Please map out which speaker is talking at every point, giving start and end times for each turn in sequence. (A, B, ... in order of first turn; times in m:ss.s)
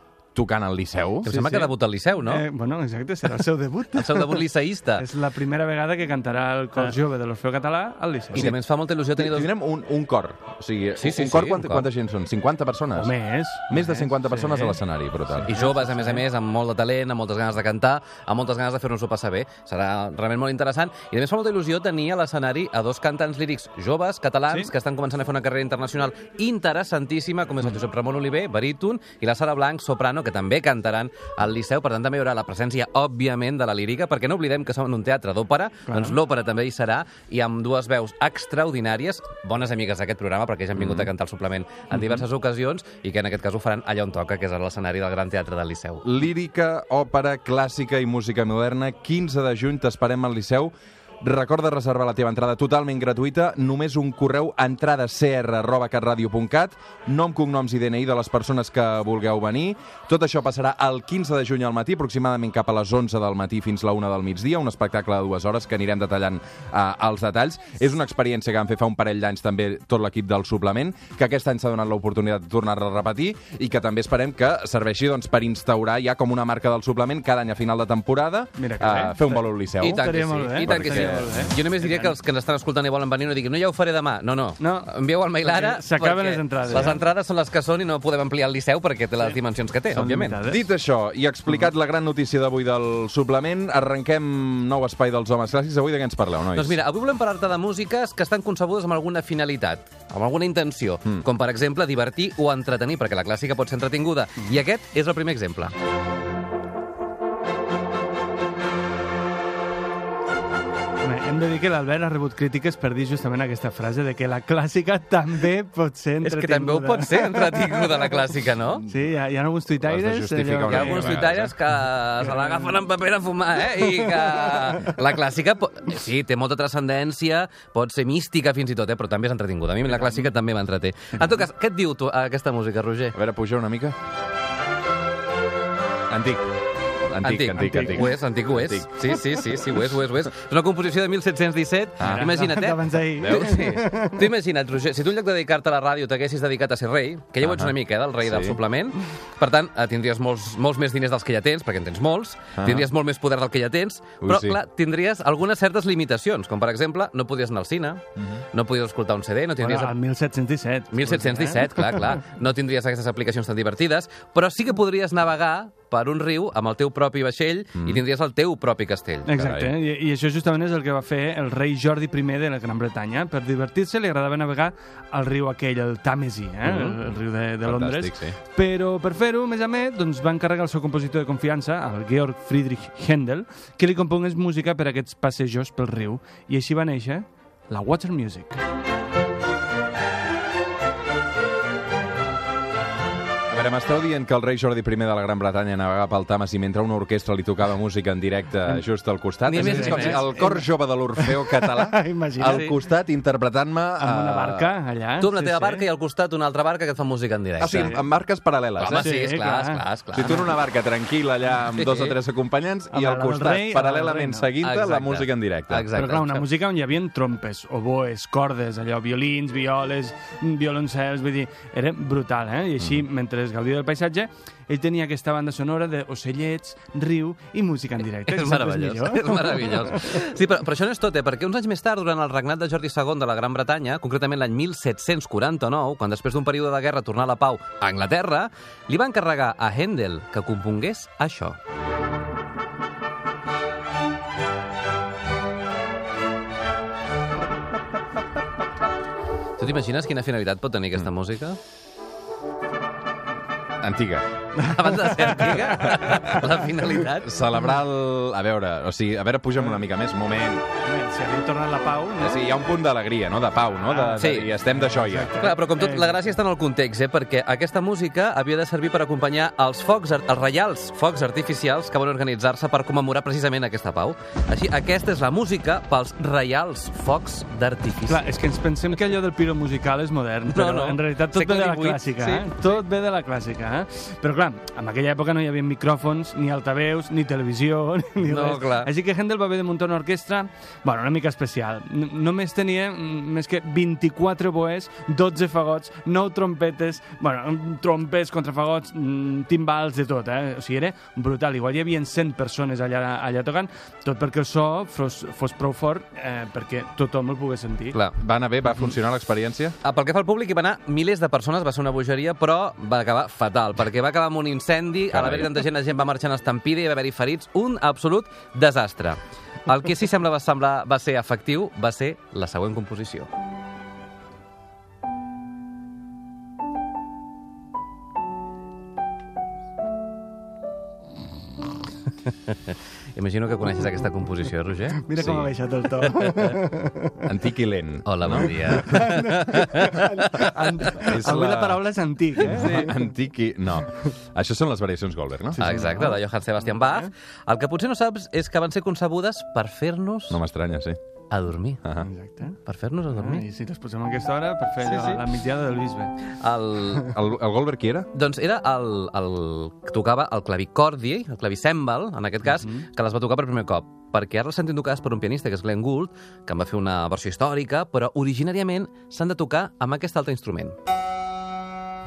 0:00.3-0:01.3 A
0:01.2-0:02.4 B
0:01.3-0:04.4 C
0:03.9-0:05.0 B
0:05.0-0:08.5 C
0:08.3-0:09.5 B
0:08.3-0:08.6 A
0:09.1-0:13.1 A
0:11.0-0:11.9 B
0:13.0-0:14.8 C
0:13.7-0:15.5 A
0:15.4-0:16.2 C
0:15.4-0:46.0 B
0:35.8-0:36.2 C
0:40.8-0:41.1 A
0:46.0-1:20.1 A
1:18.6-1:22.2 C
1:19.8-1:30.4 B
1:20.6-1:21.4 A
1:24.6-1:27.0 C
1:29.2-1:30.7 C
1:30.4-1:36.8 A
1:36.5-1:45.7 B
1:51.0-1:58.0 C
1:56.2-1:58.8 B
1:58.8-2:01.3 C
1:59.8-2:01.5 A
2:00.7-2:13.2 B
2:02.2-2:02.8 C
2:03.8-2:04.7 C
2:10.0-2:10.2 C
2:13.1-2:13.9 A
2:16.1-2:16.4 A
2:17.0-2:19.2 A
2:17.2-2:40.0 B
2:17.6-2:18.1 C
2:22.0-2:22.3 A
2:22.0-2:24.3 C
2:23.3-2:23.6 A
2:27.4-2:28.6 A
2:32.6-2:32.9 A
2:34.2-2:34.6 A
2:38.2-2:38.4 A
2:39.6-2:42.0 C
2:40.9-2:49.3 B
2:47.8-2:48.0 A
2:49.2-3:08.6 C
2:49.3-2:49.8 A
2:57.6-2:58.4 A
3:13.5-3:24.7 A
3:19.4-3:20.3 B
3:19.5-3:22.7 C
3:22.4-3:22.7 B
3:24.0-3:25.8 C
3:25.2-3:28.0 B
3:27.6-3:29.1 A
3:27.7-3:28.0 C
3:28.8-3:30.5 B
3:28.9-3:30.4 C
3:30.1-3:35.9 A
3:31.7-3:32.2 B
3:32.9-3:34.5 C
3:34.6-3:36.4 B
3:35.9-3:50.2 C
3:48.2-4:01.6 B
4:09.6-4:11.6 B
4:13.8-4:14.3 A
4:14.6-4:17.4 B
4:14.9-4:16.3 C
4:17.1-4:20.6 A
4:20.8-4:22.4 C
4:22.2-4:25.5 A
4:23.9-4:26.4 C
4:24.2-4:24.5 B
4:25.4-4:38.3 B
4:38.1-5:08.0 C
4:40.5-4:42.6 B
4:48.2-4:48.9 B
5:08.2-5:09.8 A
5:09.8-5:23.3 B
5:15.1-5:15.5 A
5:32.5-5:36.6 B
5:34.9-5:37.3 C
5:37.3-5:39.0 A
5:38.1-5:40.5 B
5:38.6-5:43.0 C
5:40.9-5:41.8 A
5:42.4-5:46.0 A
5:45.6-5:50.4 B
5:45.6-5:47.1 C
5:50.3-5:51.0 A
5:51.3-5:51.8 B
5:51.8-5:52.1 A
5:52.0-5:52.6 C
5:52.6-5:53.4 B
5:53.1-5:56.2 C
5:54.8-5:55.2 B
5:56.4-5:57.1 B
5:57.0-5:58.1 A
5:58.1-6:10.8 B
6:02.5-6:02.8 C